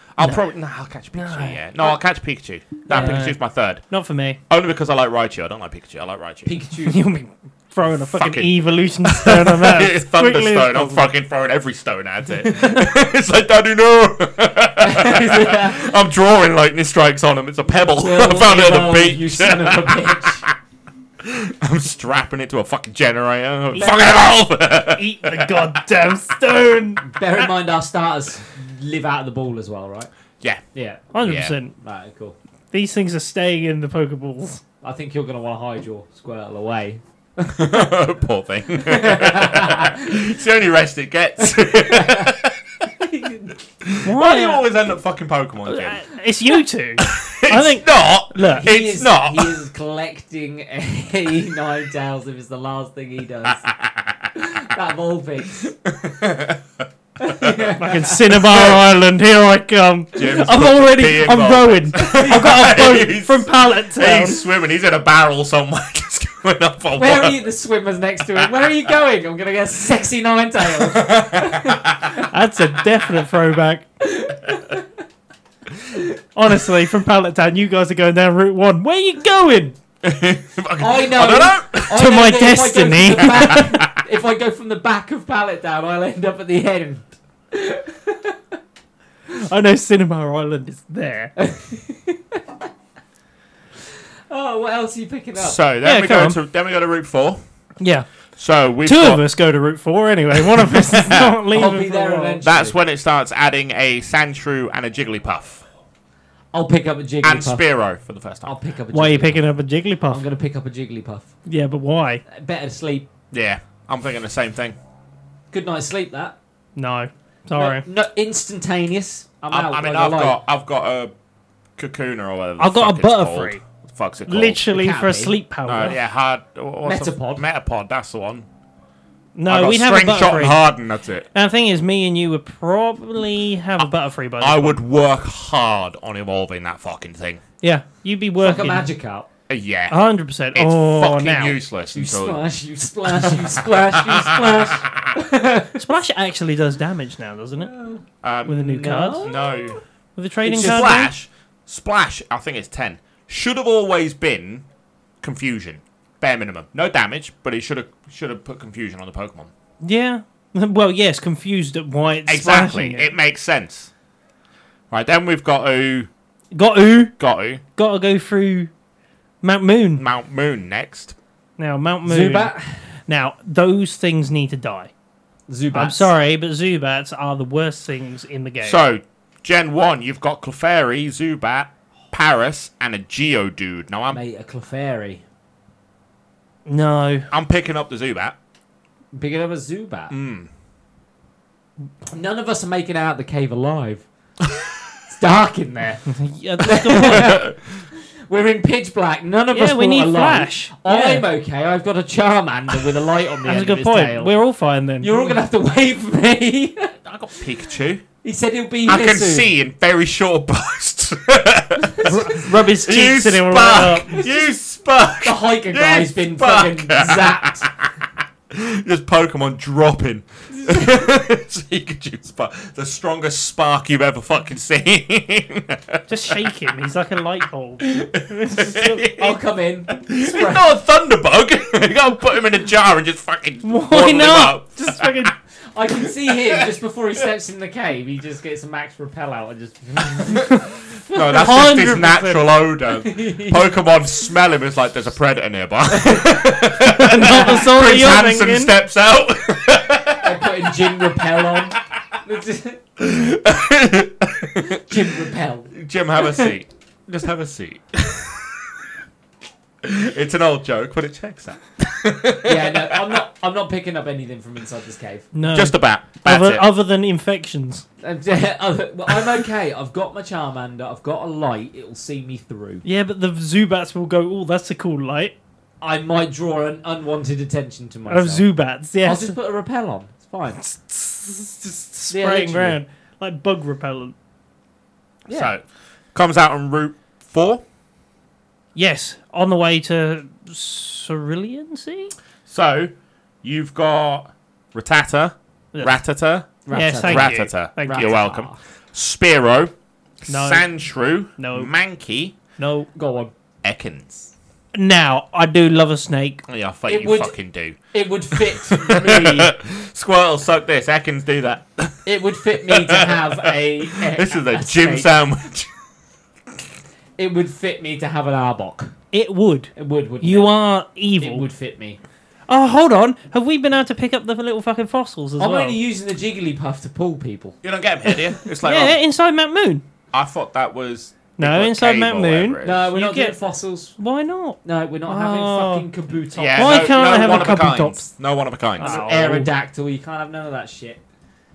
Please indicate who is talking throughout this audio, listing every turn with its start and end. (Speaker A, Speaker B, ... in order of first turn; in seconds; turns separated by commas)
Speaker A: 0.1-3.8, Speaker B: 1.1-1.6, Speaker B: 2.9-3.4, Speaker C: 2.9-3.2, Speaker B: 3.9-4.4, Speaker A: 4.5-6.5, Speaker C: 6.4-7.0, Speaker B: 6.8-11.1, Speaker A: 8.2-8.5, Speaker A: 9.0-20.5, Speaker C: 12.4-12.8, Speaker C: 14.8-15.9, Speaker C: 17.9-20.4, Speaker A: 21.2-25.8, Speaker C: 23.7-24.2, Speaker B: 24.9-27.5, Speaker C: 27.1-30.1, Speaker C: 30.7-31.1, Speaker B: 31.1-31.7, Speaker A: 31.2-31.6, Speaker C: 31.8-32.4, Speaker B: 32.7-34.6, Speaker C: 34.8-37.9, Speaker A: 37.5-42.9, Speaker C: 38.7-40.2, Speaker C: 41.4-42.3, Speaker C: 42.9-43.6, Speaker A: 43.8-46.0, Speaker B: 44.0-44.6, Speaker B: 45.6-48.7, Speaker A: 47.0-49.6, Speaker C: 48.5-53.7, Speaker A: 53.6-54.3, Speaker C: 54.3-55.7, Speaker A: 55.6-57.7, Speaker C: 57.2-58.5, Speaker B: 57.8-64.4, Speaker A: 58.3-58.8, Speaker A: 60.1-67.5, Speaker C: 62.2-62.7, Speaker C: 67.0-72.3, Speaker A: 68.3-68.6, Speaker A: 70.7-72.1, Speaker B: 72.3-73.8, Speaker C: 74.0-74.9, Speaker B: 76.3-79.8, Speaker A: 80.0-82.0, Speaker C: 80.8-88.4, Speaker B: 81.9-83.7, Speaker A: 83.5-84.0, Speaker B: 89.3-91.3, Speaker C: 91.4-92.7, Speaker C: 94.3-95.6, Speaker A: 95.4-97.4, Speaker B: 95.8-96.3, Speaker B: 97.8-98.1, Speaker A: 98.4-99.2, Speaker B: 98.8-102.4, Speaker A: 100.7-101.3, Speaker C: 101.5-102.8, Speaker A: 102.4-105.6, Speaker C: 106.5-107.6, Speaker A: 107.2-108.5, Speaker C: 108.4-109.5, Speaker B: 108.9-110.2, Speaker C: 110.1-111.3, Speaker B: 111.5-112.2, Speaker C: 112.3-113.1, Speaker A: 113.3-114.8, Speaker C: 115.5-116.3, Speaker B: 116.8-117.8, Speaker C: 117.5-120.4, Speaker A: 119.5-121.1, Speaker A: 121.8-124.6, Speaker B: 122.6-123.6, Speaker B: 124.3-126.0, Speaker C: 124.7-125.3, Speaker A: 125.7-128.5, Speaker C: 126.8-127.4, Speaker B: 129.3-130.6, Speaker A: 129.5-131.3, Speaker B: 131.3-134.8, Speaker A: 134.4-137.4, Speaker B: 137.6-138.9, Speaker C: 138.4-139.3, Speaker A: 139.5-140.0, Speaker B: 139.9-141.6, Speaker A: 140.5-142.4, Speaker C: 141.9-145.8, Speaker A: 143.1-145.1, Speaker B: 145.8-147.7, Speaker C: 147.6-149.7, Speaker A: 148.2-149.8, Speaker B: 148.5-149.3, Speaker B: 150.2-151.1, Speaker C: 150.4-151.0, Speaker A: 150.4-154.7, Speaker A: 155.2-159.5, Speaker B: 159.8-163.1, Speaker A: 162.3-163.9, Speaker A: 164.9-166.1, Speaker B: 166.5-167.1, Speaker A: 167.2-167.6, Speaker B: 167.8-168.7, Speaker B: 169.4-170.0, Speaker A: 170.0-171.2, Speaker B: 171.6-172.5, Speaker C: 172.0-172.9, Speaker B: 173.1-174.9, Speaker C: 175.5-176.1, Speaker B: 175.7-178.8, Speaker A: 178.6-184.2, Speaker C: 184.1-185.2, Speaker B: 186.7-187.3, Speaker A: 187.3-188.3, Speaker C: 189.1-190.1, Speaker A: 190.1-190.5, Speaker C: 192.1-194.1, Speaker C: 195.1-196.1, Speaker B: 196.1-197.4, Speaker C: 196.6-204.3, Speaker A: 197.1-197.6, Speaker B: 199.5-201.3, Speaker B: 203.4-205.4, Speaker C: 205.0-206.9, Speaker A: 207.0-208.0, Speaker C: 208.2-209.5, Speaker A: 208.8-217.9, Speaker C: 212.0-212.4, Speaker B: 212.0-214.2, Speaker C: 214.0-214.5, Speaker C: 215.2-217.7, Speaker A: 218.5-226.4, Speaker C: 220.5-221.0, Speaker B: 226.1-229.0, Speaker A: 227.8-229.3, Speaker C: 229.2-230.7, Speaker A: 229.9-235.3, Speaker B: 233.6-235.3, Speaker C: 235.7-241.6, Speaker A: 236.3-236.6, Speaker A: 241.1-251.4, Speaker B: 241.2-242.5, Speaker C: 242.9-243.7, Speaker C: 245.9-247.7, Speaker B: 246.9-248.7, Speaker C: 250.2-252.8, Speaker A: 253.0-254.9, Speaker C: 254.7-256.5, Speaker A: 255.7-258.6, Speaker A: 259.8-263.2, Speaker C: 262.4-265.3, Speaker B: 265.3-267.8, Speaker A: 265.5-266.6, Speaker C: 268.0-272.8, Speaker B: 272.8-275.3, Speaker C: 275.8-278.4, Speaker B: 278.1-279.4, Speaker C: 279.0-280.6, Speaker B: 280.7-284.1, Speaker C: 282.1-282.8, Speaker A: 285.3-287.6, Speaker B: 288.7-292.1, Speaker A: 292.5-302.4, Speaker C: 296.6-298.6, Speaker B: 296.7-298.1, Speaker B: 300.3-300.7, Speaker B: 301.4-301.7, Speaker B: 302.6-302.9, Speaker C: 302.9-303.3, Speaker A: 303.6-304.3, Speaker B: 304.7-306.4, Speaker A: 306.5-307.8, Speaker C: 306.9-307.3, Speaker C: 307.9-309.5, Speaker A: 308.4-312.1, Speaker C: 312.1-315.1, Speaker A: 312.6-315.7, Speaker C: 317.2-318.9, Speaker B: 319.1-321.4, Speaker C: 319.8-320.5, Speaker C: 321.2-322.0, Speaker B: 322.5-325.8, Speaker C: 325.4-327.6, Speaker A: 327.6-329.0, Speaker B: 328.6-329.8, Speaker A: 330.1-332.8, Speaker B: 331.4-333.4, Speaker C: 332.6-333.9, Speaker B: 334.0-335.9, Speaker C: 334.6-337.5, Speaker A: 336.4-338.9, Speaker B: 336.5-338.1, Speaker B: 338.8-339.5, Speaker C: 338.8-341.0